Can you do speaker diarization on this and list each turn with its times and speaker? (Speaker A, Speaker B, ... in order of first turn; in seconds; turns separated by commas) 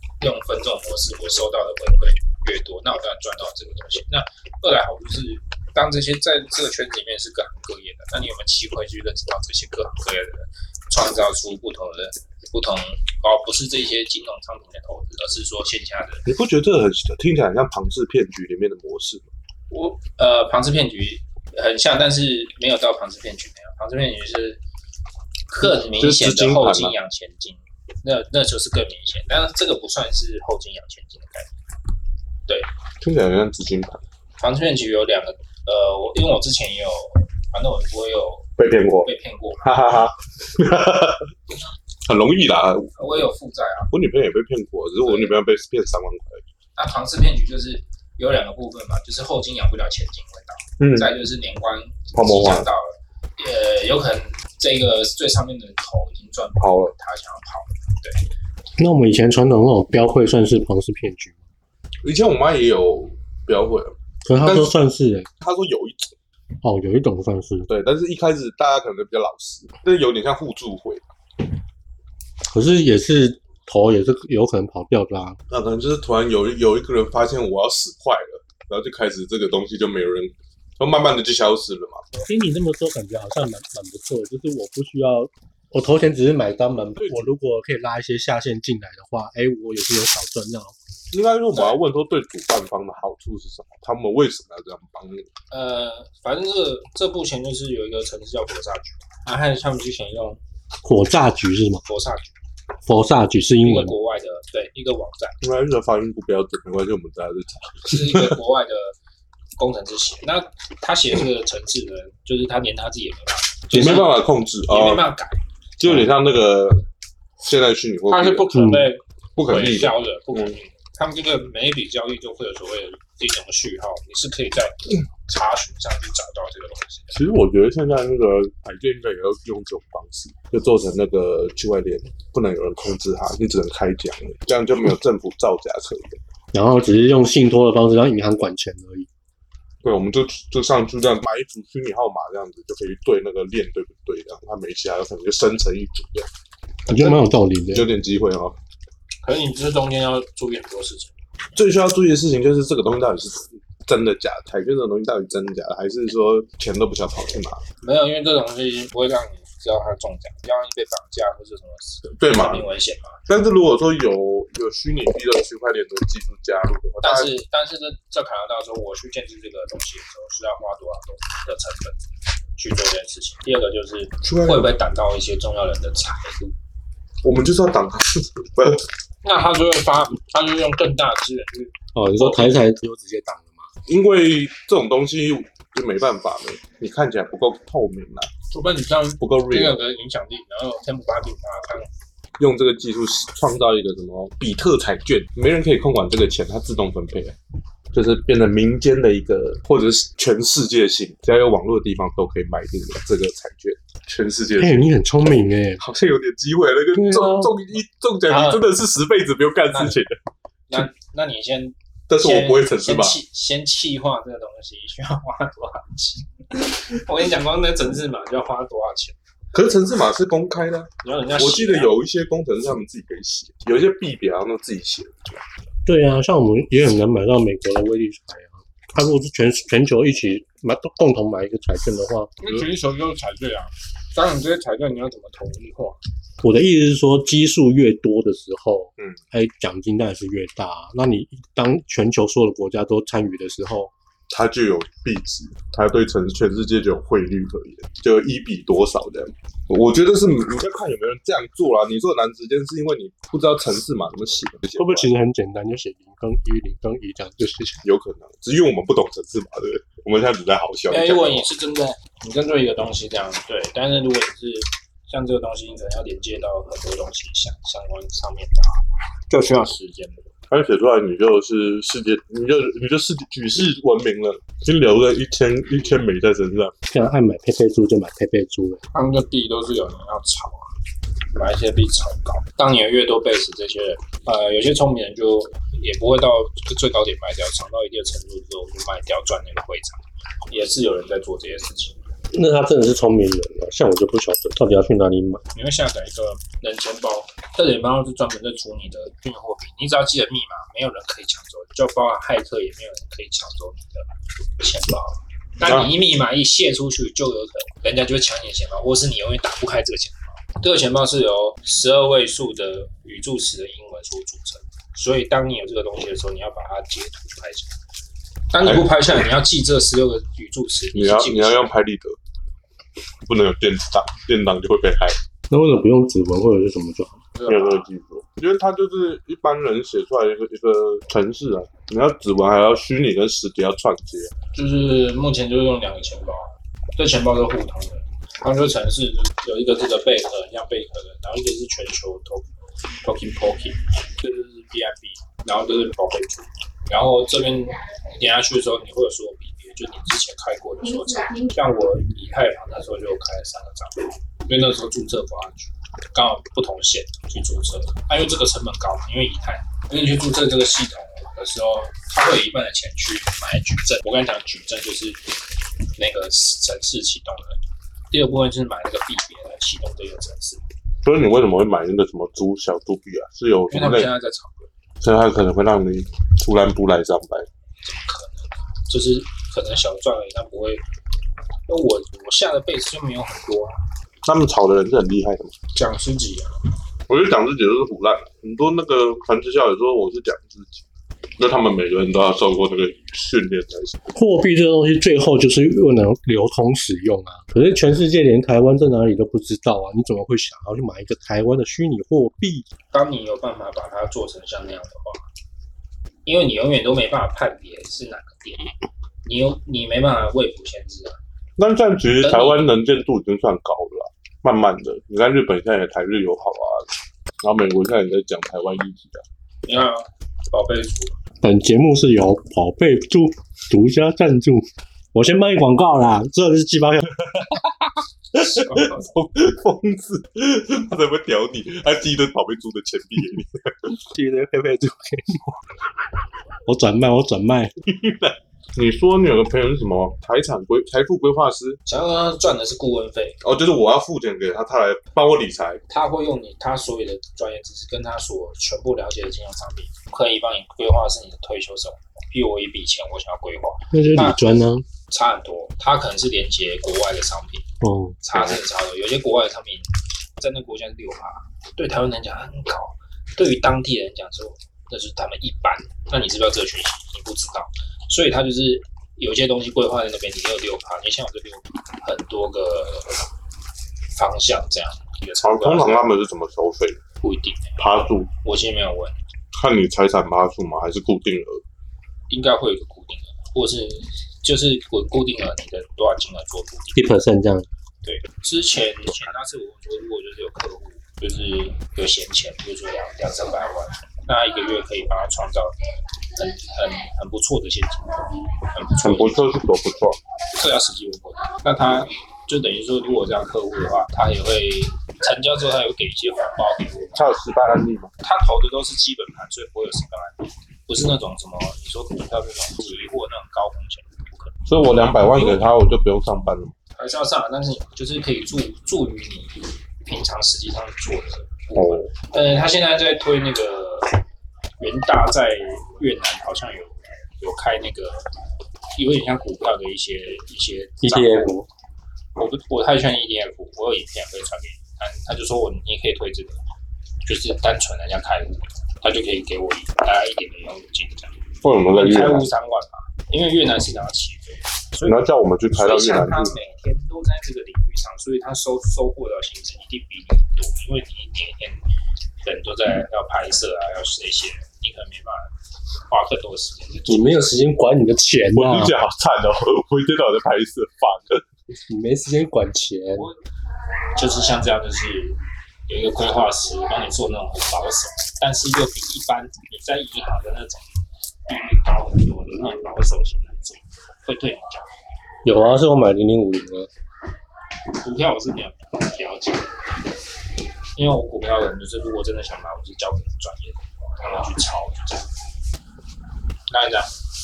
Speaker A: 0.2-16.2, Speaker B: 16.2-19.3, Speaker A: 19.7-24.6, Speaker A: 25.5-31.5, Speaker B: 25.6-26.9, Speaker B: 33.0-34.0, Speaker A: 34.4-38.5, Speaker B: 38.6-39.1, Speaker A: 39.0-39.9, Speaker B: 39.6-41.2, Speaker B: 42.1-43.2, Speaker A: 43.0-43.9, Speaker B: 43.9-46.4, Speaker A: 45.0-45.4, Speaker A: 46.8-58.2, Speaker B: 50.8-51.1, Speaker B: 52.1-52.7, Speaker B: 56.6-56.9, Speaker C: 58.8-61.4, Speaker B: 62.0-64.7, Speaker C: 64.2-65.3, Speaker B: 65.4-66.1, Speaker C: 66.6-67.7, Speaker B: 67.7-71.0, Speaker C: 72.5-75.4, Speaker B: 75.5-82.0, Speaker C: 82.2-90.8, Speaker B: 87.0-87.3, Speaker B: 91.1-95.3, Speaker A: 91.5-91.8, Speaker A: 95.5-100.4, Speaker C: 100.8-101.8, Speaker A: 101.8-102.3, Speaker C: 102.9-103.9, Speaker A: 103.6-105.4, Speaker B: 105.4-108.3, Speaker A: 107.9-108.9, Speaker A: 109.6-114.1, Speaker B: 113.7-115.0, Speaker A: 114.7-115.4, Speaker B: 115.8-116.8, Speaker B: 117.4-118.5, Speaker A: 118.1-127.1, Speaker C: 118.5-118.9, Speaker B: 119.3-120.6, Speaker B: 127.1-136.2, Speaker C: 136.5-139.1, Speaker B: 139.8-146.3, Speaker C: 146.9-147.9, Speaker B: 146.9-148.6, Speaker A: 149.2-151.1, Speaker B: 151.6-157.6, Speaker A: 157.8-163.2, Speaker B: 162.1-162.7, Speaker B: 163.3-167.3, Speaker A: 167.0-172.0, Speaker A: 172.6-176.5, Speaker B: 174.2-174.7, Speaker B: 177.2-178.8, Speaker A: 179.2-182.6, Speaker C: 181.9-183.7, Speaker B: 183.9-188.3, Speaker A: 188.5-191.9, Speaker B: 189.2-189.8, Speaker B: 192.4-197.4, Speaker B: 197.9-204.8, Speaker C: 204.6-205.8, Speaker B: 205.8-210.2, Speaker C: 206.9-207.5, Speaker A: 208.3-208.7, Speaker A: 210.7-219.2, Speaker B: 212.1-213.2, Speaker B: 219.5-225.4, Speaker A: 221.0-221.9, Speaker C: 225.8-232.3, Speaker A: 232.4-236.0, Speaker C: 236.4-243.9, Speaker B: 244.3-255.1, Speaker C: 254.7-257.9, Speaker B: 257.8-261.5, Speaker A: 260.9-270.3, Speaker B: 270.5-276.7, Speaker C: 276.9-278.8, Speaker A: 278.9-280.7, Speaker A: 281.3-292.0, Speaker C: 292.3-295.4, Speaker A: 295.5-317.7, Speaker B: 305.6-305.9, Speaker A: 318.5-321.7, Speaker B: 318.6-319.2, Speaker B: 320.9-322.1, Speaker B: 323.2-325.1, Speaker C: 325.5-327.2, Speaker A: 327.3-327.9, Speaker B: 327.5-334.3, Speaker A: 334.5-342.5, Speaker A: 343.0-365.3, Speaker A: 365.9-367.6, Speaker A: 368.1-370.6, Speaker B: 371.0-374.1, Speaker A: 373.7-374.7, Speaker B: 375.0-377.5, Speaker A: 377.8-380.8, Speaker A: 381.7-383.8, Speaker B: 384.2-385.5, Speaker A: 385.7-386.5, Speaker B: 387.1-390.8, Speaker B: 391.4-394.0, Speaker C: 394.1-402.7, Speaker A: 402.9-405.2, Speaker A: 406.2-408.7, Speaker A: 409.2-411.2, Speaker B: 411.6-416.9, Speaker A: 412.2-412.7, Speaker B: 417.4-419.2, Speaker A: 419.6-421.2, Speaker C: 421.4-427.1, Speaker B: 427.2-433.9, Speaker A: 428.6-429.1, Speaker C: 434.1-435.5, Speaker C: 436.6-437.7, Speaker B: 437.9-441.8, Speaker A: 441.9-443.4, Speaker B: 443.4-445.8, Speaker A: 445.9-457.6, Speaker C: 453.9-454.8, Speaker C: 457.8-458.5, Speaker A: 458.2-473.3, Speaker A: 474.1-476.1, Speaker B: 475.4-477.0, Speaker A: 477.2-477.8, Speaker B: 477.8-478.3, Speaker A: 478.4-479.2, Speaker B: 479.5-481.6, Speaker A: 482.3-487.0, Speaker C: 486.9-487.7, Speaker A: 488.0-495.7, Speaker A: 496.4-499.4, Speaker B: 499.0-500.2, Speaker A: 500.5-507.2, Speaker B: 507.1-508.1, Speaker A: 508.2-514.5, Speaker B: 514.6-516.7, Speaker A: 515.3-515.6, Speaker A: 517.0-524.1, Speaker B: 521.7-522.1, Speaker A: 524.8-528.3, Speaker A: 529.0-531.5, Speaker C: 531.0-531.7, Speaker A: 532.4-536.6, Speaker A: 537.2-541.3, Speaker B: 541.6-542.5, Speaker A: 541.9-551.8, Speaker B: 545.0-546.5, Speaker A: 552.4-555.5, Speaker A: 556.1-557.6, Speaker C: 557.1-559.0, Speaker B: 558.5-561.4, Speaker C: 561.9-563.3, Speaker A: 564.1-570.9, Speaker A: 571.5-574.9, Speaker C: 575.4-576.9, Speaker A: 578.0-579.7, Speaker A: 580.9-585.3, Speaker A: 586.7-587.1